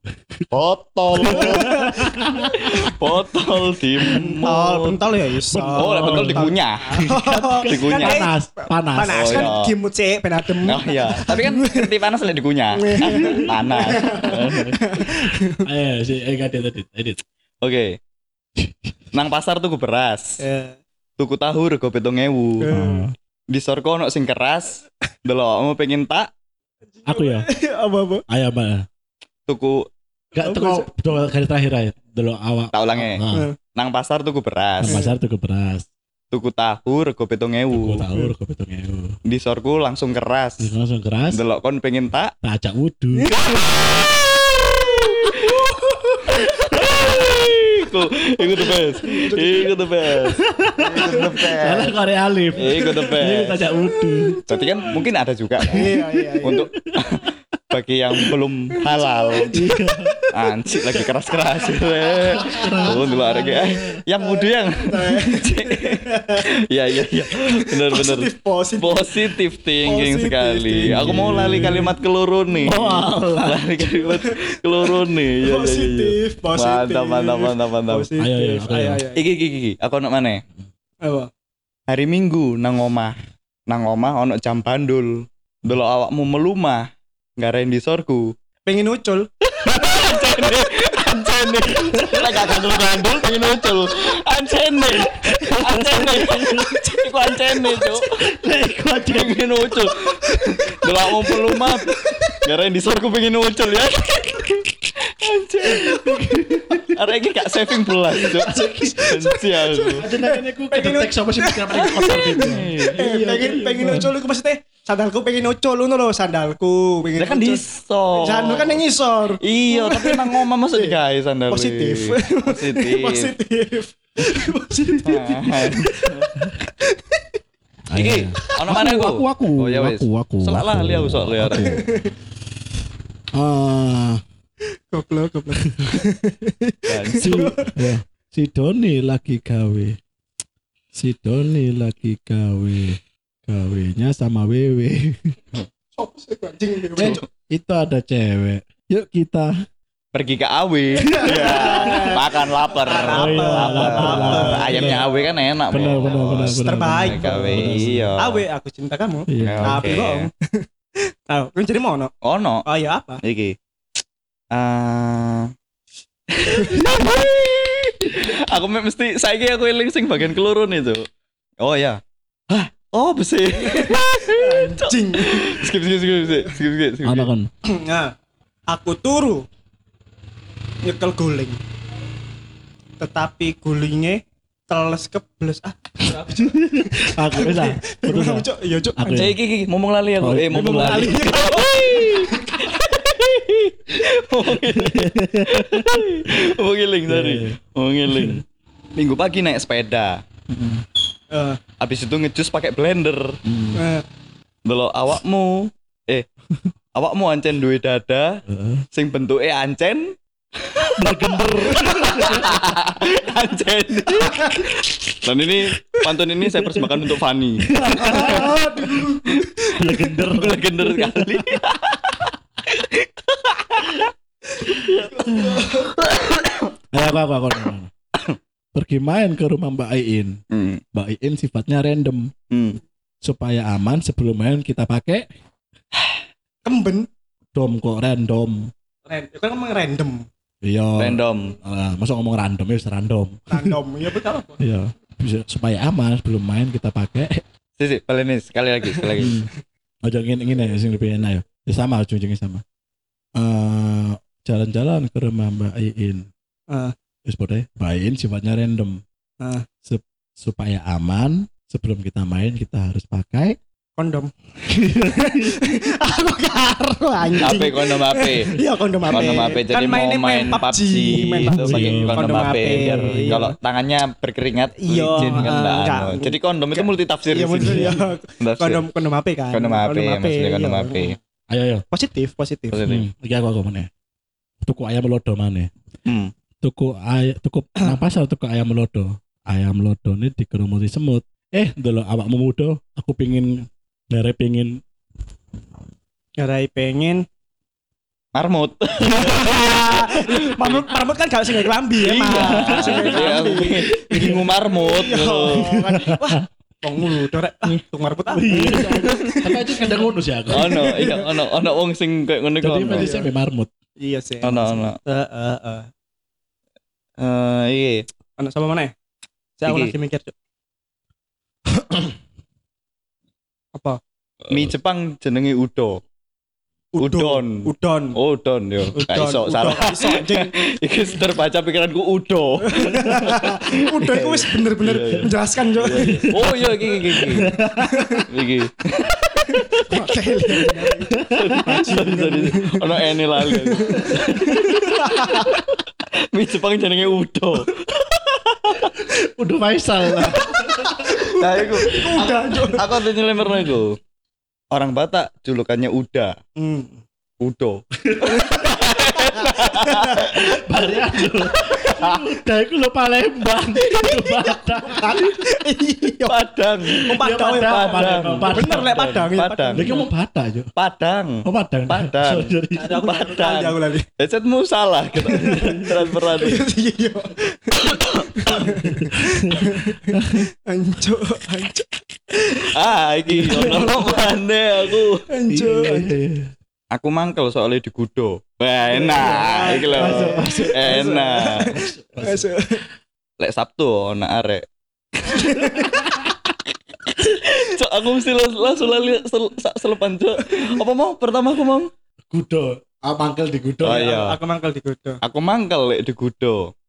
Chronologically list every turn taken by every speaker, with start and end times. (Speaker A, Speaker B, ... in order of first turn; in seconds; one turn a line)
Speaker A: 0.5-1.8
Speaker B: 1.2-2.9
Speaker C: 1.2-2.1
Speaker A: 2.6-5.0
Speaker B: 4.0-4.5
Speaker C: 4.1-11.9
Speaker B: 5.5-9.5
Speaker A: 5.7-7.0
Speaker A: 7.5-8.2
Speaker A: 9.1-9.7
Speaker A: 10.7-14.7
Speaker C: 12.8-15.6
Speaker B: 13.1-13.5
Speaker B: 14.3-17.2
Speaker A: 17.6-17.9
Speaker B: 18.6-18.9
Speaker A: 19.1-20.4
Speaker C: 20.4-20.8
Speaker A: 21.2-22.7
Speaker C: 22.6-23.1
Speaker B: 22.7-23.1
Speaker A: 23.5-26.3
Speaker C: 26.9-28.2
Speaker B: 27.1-27.5
Speaker B: 28.3-28.8
Speaker A: 29.5-29.8
Speaker C: 30.4-30.9
Speaker B: 30.4-33.5
Speaker A: 32.7-33.2
Speaker A: 33.7-35.0
Speaker B: 34.8-35.9
Speaker C: 34.9-35.1
Speaker A: 36.3-38.1
Speaker B: 37.7-39.1
Speaker A: 39.3-40.7
Speaker B: 40.6-41.4
Speaker A: 41.3-42.3
Speaker B: 42.4-43.3
Speaker C: 43.1-43.5
Speaker A: 43.5-44.0
Speaker A: 44.8-45.7
Speaker A: 46.4-51.9
Speaker B: 46.6-47.5
Speaker C: 48.4-49.8
Speaker B: 50.3-54.4
Speaker A: 52.6-53.6
Speaker C: 52.6-54.7
Speaker A: 54.5-55.9
Speaker C: 55.7-56.6
Speaker B: 55.7-56.6
Speaker A: 56.4-59.6
Speaker C: 58.8-60.3
Speaker B: 59.5-60.1
Speaker A: 60.3-78.1
Speaker C: 61.8-66.4
Speaker B: 62.4-63.8
Speaker C: 67.3-69.3
Speaker C: 69.8-71.9
Speaker B: 70.9-71.9
Speaker B: 72.6-73.6
Speaker C: 73.9-79.2
Speaker B: 78.2-79.0
Speaker A: 79.1-80.4
Speaker C: 81.0-81.3
Speaker A: 81.9-83.1
Speaker A: 83.7-85.1
Speaker A: 85.6-86.8
Speaker A: 87.4-88.3
Speaker C: 88.7-90.0
Speaker A: 89.6-98.1
Speaker B: 91.9-92.6
Speaker B: 94.9-99.5
Speaker A: 99.0-106.2
Speaker B: 105.6-107.0
Speaker A: 106.9-110.0
Speaker B: 108.1-109.3
Speaker C: 108.5-121.0
Speaker B: 110.0-114.1
Speaker A: 111.7-113.0
Speaker A: 117.2-118.8
Speaker A: 119.4-123.3
Speaker C: 121.5-126.1
Speaker A: 125.0-126.3
Speaker C: 126.9-127.4
Speaker B: 127.9-131.8
Speaker A: 127.9-131.7
Speaker C: 131.5-132.1
Speaker B: 133.3-134.2
Speaker C: 134.9-137.8
Speaker A: 136.9-137.4
Speaker B: 137.2-139.9
Speaker B: 140.9-145.3
Speaker C: 145.9-147.2
Speaker A: 146.9-147.2
Speaker B: 147.0-149.5
Speaker A: 150.1-158.4
Speaker C: 151.1-152.2
Speaker B: 151.2-152.2
Speaker C: 152.8-155.2
Speaker B: 153.0-155.0
Speaker B: 155.7-158.1
Speaker C: 156.6-160.6
Speaker B: 159.3-159.8
Speaker A: 159.4-160.3
Speaker C: 161.3-162.1
Speaker A: 162.2-162.6
Speaker C: 162.7-163.2
Speaker A: 163.2-163.5
Speaker A: 164.5-165.5
Speaker A: 166.3-171.0
Speaker A: 171.6-177.3
Speaker C: 173.6-175.7
Speaker B: 177.0-177.5
Speaker C: 177.7-178.1
Speaker C: 178.7-179.4
Speaker C: 180.8-181.6
Speaker C: 183.0-189.3
Speaker B: 186.3-189.4
Speaker A: 189.1-198.4
Speaker B: 190.2-191.2
Speaker C: 190.5-192.6
Speaker B: 194.5-196.0
Speaker B: 197.1-197.6
Speaker B: 198.1-198.4
Speaker A: 198.9-200.1
Speaker B: 200.5-200.8
Speaker C: 201.3-201.6
Speaker A: 201.8-203.3
Speaker B: 203.4-203.8
Speaker C: 203.7-204.0
Speaker A: 204.7-206.3
Speaker A: 206.9-208.4
Speaker B: 208.5-208.8
Speaker A: 208.9-210.1
Speaker A: 210.6-218.4
Speaker B: 211.0-212.8
Speaker B: 217.7-219.1
Speaker C: 217.8-219.7
Speaker A: 219.2-224.1
Speaker B: 219.8-221.5
Speaker C: 224.6-225.9
Speaker A: 224.7-226.7
Speaker B: 226.9-227.9
Speaker B: 228.7-230.4
Speaker A: 230.5-230.8
Speaker B: 230.9-232.3
Speaker A: 232.5-232.8
Speaker B: 233.2-235.2
Speaker C: 236.6-237.1
Speaker B: 237.5-238.7
Speaker C: 239.1-240.2
Speaker B: 240.6-243.7
Speaker A: 241.0-241.6
Speaker C: 243.5-244.6
Speaker B: 244.6-247.4
Speaker A: 247.8-249.3
Speaker B: 249.2-249.5
Speaker B: 250.0-252.6
Speaker B: 253.4-256.3
Speaker B: 257.3-259.0
Speaker B: 259.8-263.6
Speaker C: 264.0-273.5
Speaker B: 265.0-265.3
Speaker A: 267.4-268.5
Speaker A: 269.1-278.8
Speaker B: 271.1-273.4
Speaker C: 274.8-281.1
Speaker B: 275.1-275.5
Speaker B: 277.6-278.0
Speaker A: 279.5-281.1
Speaker B: 281.5-281.8
Speaker C: 281.9-282.8
Speaker A: 282.7-283.1
Speaker B: 282.8-283.9
Speaker B: 284.6-285.7
Speaker B: 286.6-294.8
Speaker C: 296.4-297.2
Speaker A: 298.3-300.8
Speaker C: 299.1-309.8
Speaker A: 302.1-305.7
Speaker B: 302.1-304.5
Speaker B: 305.5-306.4
Speaker B: 308.3-311.1
Speaker A: 310.5-313.1
Speaker C: 310.6-311.3
Speaker B: 312.6-313.7
Speaker C: 312.9-313.3
Speaker C: 314.0-315.9
Speaker A: 314.4-315.0
Speaker A: 317.2-318.0
Speaker C: 318.4-318.9
Speaker C: 319.6-320.3
Speaker A: 319.6-319.9
Speaker C: 323.7-324.0
Speaker A: 324.5-326.0
Speaker C: 326.9-328.2
Speaker A: 327.0-337.5
Speaker C: 328.9-330.6
Speaker C: 332.7-338.2
Speaker B: 335.0-335.3
Speaker B: 337.2-338.2
Speaker A: 338.3-339.2
Speaker C: 339.3-342.8
Speaker B: 340.6-341.5
Speaker A: 341.3-345.6
Speaker C: 343.4-345.6
Speaker B: 343.9-344.8
Speaker A: 346.3-348.9
Speaker B: 349.3-351.1
Speaker C: 350.2-352.9
Speaker A: 351.4-353.9
Speaker A: 354.7-356.3
Speaker C: 356.6-357.0
Speaker A: 357.4-360.2
Speaker B: 358.1-358.8
Speaker C: 358.3-360.3
Speaker B: 360.2-365.1
Speaker A: 361.9-362.2
Speaker C: 364.3-366.4
Speaker A: 366.2-367.1
Speaker B: 366.9-368.9
Speaker C: 367.1-370.1
Speaker A: 367.6-369.9
Speaker B: 369.7-370.7
Speaker A: 370.8-376.6
Speaker B: 371.4-373.0
Speaker C: 372.8-374.1
Speaker C: 375.2-382.5
Speaker A: 377.8-378.7
Speaker B: 378.8-379.2
Speaker B: 380.1-380.4
Speaker A: 382.7-385.2
Speaker C: 383.3-384.2
Speaker C: 385.3-386.1
Speaker B: 385.5-386.5
Speaker A: 386.9-391.7
Speaker C: 388.9-392.8
Speaker B: 389.9-391.0
Speaker B: 391.7-392.5
Speaker A: 393.4-394.6
Speaker C: 395.3-396.0
Speaker B: 395.6-396.3
Speaker A: 397.1-401.9
Speaker B: 402.3-404.0
Speaker A: 403.8-404.4
Speaker C: 403.8-405.2
Speaker A: 405.2-406.6